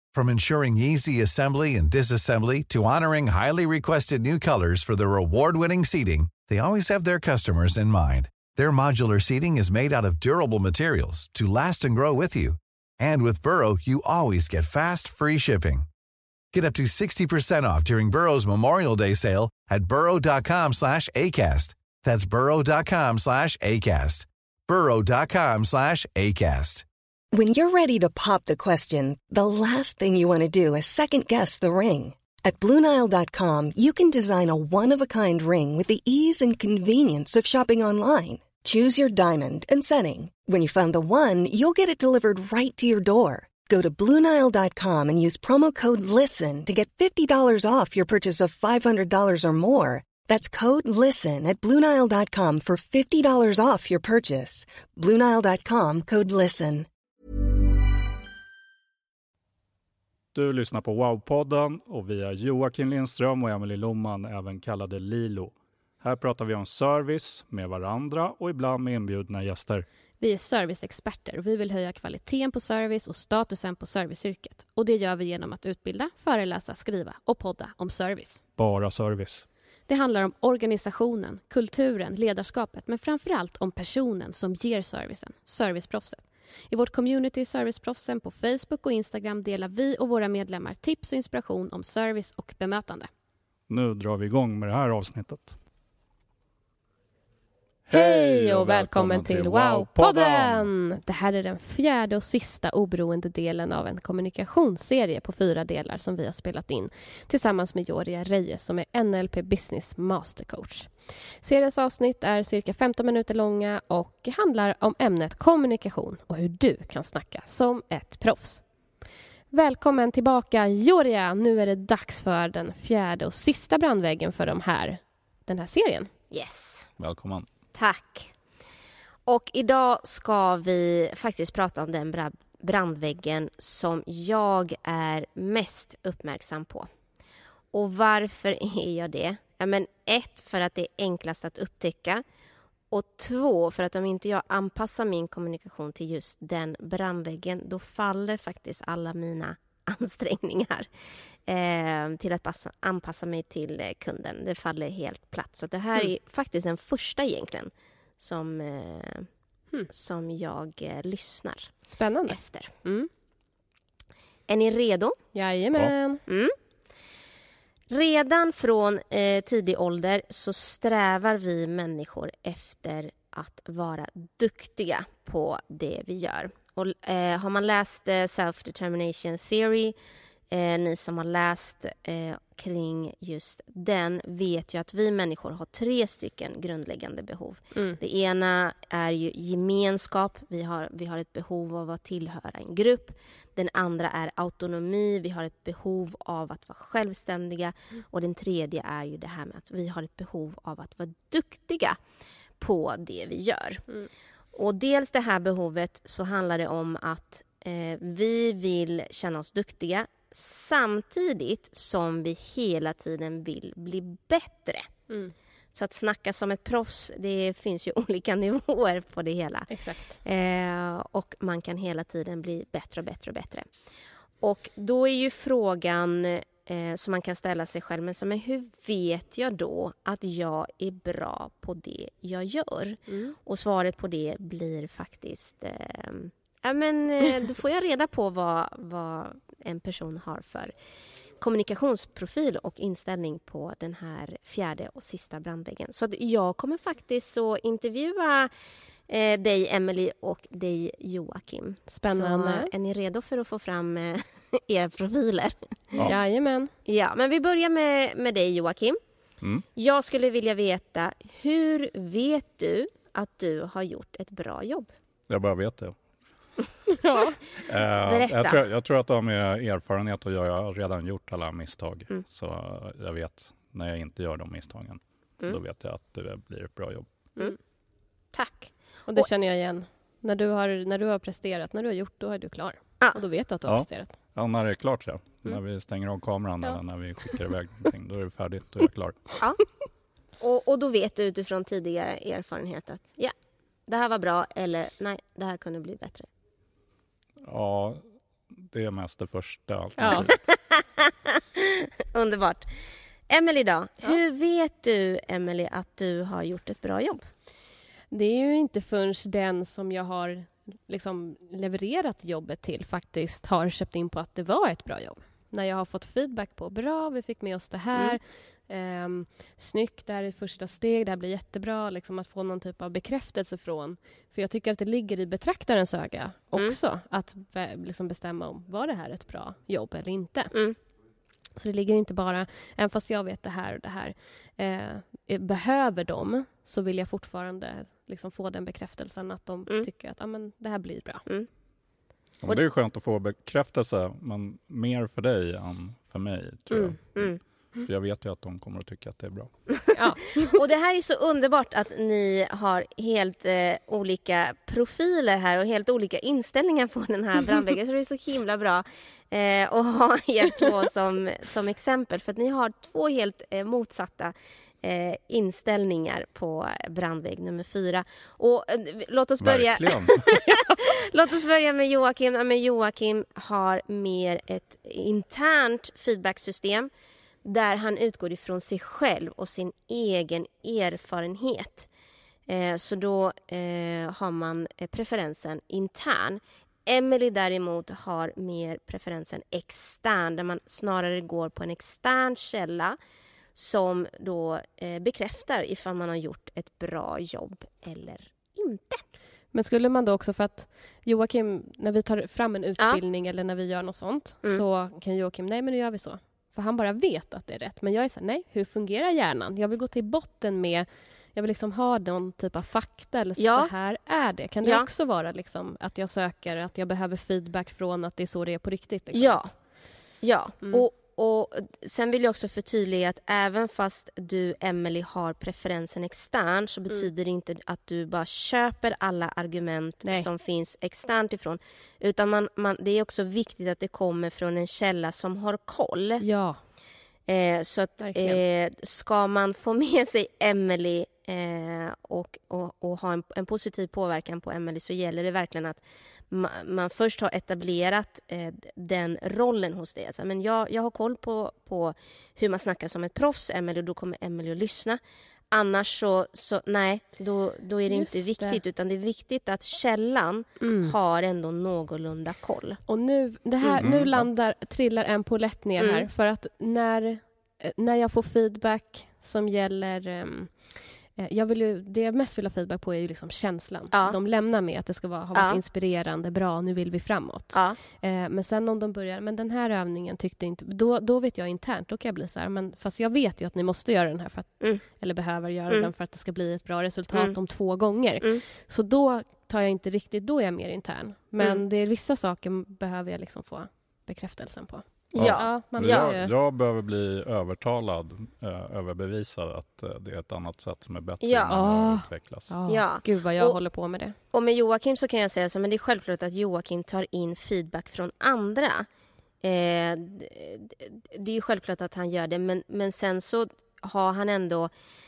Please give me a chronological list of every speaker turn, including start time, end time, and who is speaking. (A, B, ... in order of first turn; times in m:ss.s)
0:00.1-0:15.9 A
0:16.5-0:26.9 A
0:27.3-0:56.9 B
1:00.3-1:09.9 C
1:10.2-1:18.4 D
1:18.6-1:19.5 C
1:19.9-1:33.1 D
1:33.7-1:35.6 C
1:37.9-1:40.7 C
1:37.9-1:58.6 D
1:59.5-2:06.1 D
2:06.3-2:06.9 E
2:07.0-2:07.5 C
2:07.8-2:08.3 E
2:09.3-2:16.9 E
2:17.7-2:22.2 E
2:22.9-2:30.9 E
2:31.5-2:39.3 E
2:39.9-2:42.7 E
2:41.9-2:43.1 D
2:44.5-2:45.2 E
2:45.3-2:46.2 D
2:46.3-2:46.6 E
2:47.9-3:00.0 E
3:00.5-3:22.0 E
3:07.7-3:08.0 D
3:22.6-3:23.8 E
3:24.5-3:34.9 E
3:35.1-3:35.3 D
3:35.7-3:43.7 E
3:39.7-3:40.2 D
3:44.4-4:00.7 E
3:53.1-3:53.4 D
4:01.4-4:08.5 E
4:09.1-4:16.0 E
4:11.9-4:12.7 D
4:16.0-4:16.7 D
4:16.9-4:19.0 E
4:19.8-4:24.9 E
4:25.3-4:26.0 C
4:27.0-4:27.4 D
4:27.6-4:37.1 C
4:28.0-4:28.6 E
4:38.3-4:39.3 E
4:39.1-4:44.1 D
4:43.7-4:49.4 C
4:49.4-4:49.6 E
4:50.4-4:53.3 E
4:53.9-4:56.3 E
4:57.4-4:58.0 C
4:58.7-5:00.4 C
5:00.0-5:00.3 D
5:00.1-5:02.7 E
5:03.3-5:07.2 E
5:08.1-5:30.5 D
5:17.9-5:18.2 E
5:31.6-5:41.3 D
5:42.4-5:49.5 C
5:46.7-5:47.0 D
5:49.9-5:50.4 D
5:50.4-6:16.9 E
6:09.4-6:10.3 C
6:17.4-6:21.9 E
6:22.5-6:33.0 E
6:33.6-6:39.0 E
6:39.5-6:59.4 D
6:53.4-6:53.8 E
6:54.6-6:54.9 E
6:59.1-6:59.5 E
7:00.2-7:16.2 E
7:16.2-7:16.6 D
7:17.3-7:35.0 E
7:18.0-7:18.4 D
7:35.5-7:42.8 E
7:37.9-7:38.6 D
7:40.6-7:41.0 D
7:42.9-8:16.3 D
7:43.8-7:44.3 C
7:45.8-7:46.1 E
7:53.9-7:54.2 E
7:55.3-7:55.6 E
7:57.5-7:57.8 E
8:15.1-8:16.2 E
8:15.2-8:22.5 C
8:21.2-8:21.6 E
8:21.5-8:24.2 D
8:22.7-8:23.6 E
8:24.3-8:28.9 E
8:29.4-8:34.7 E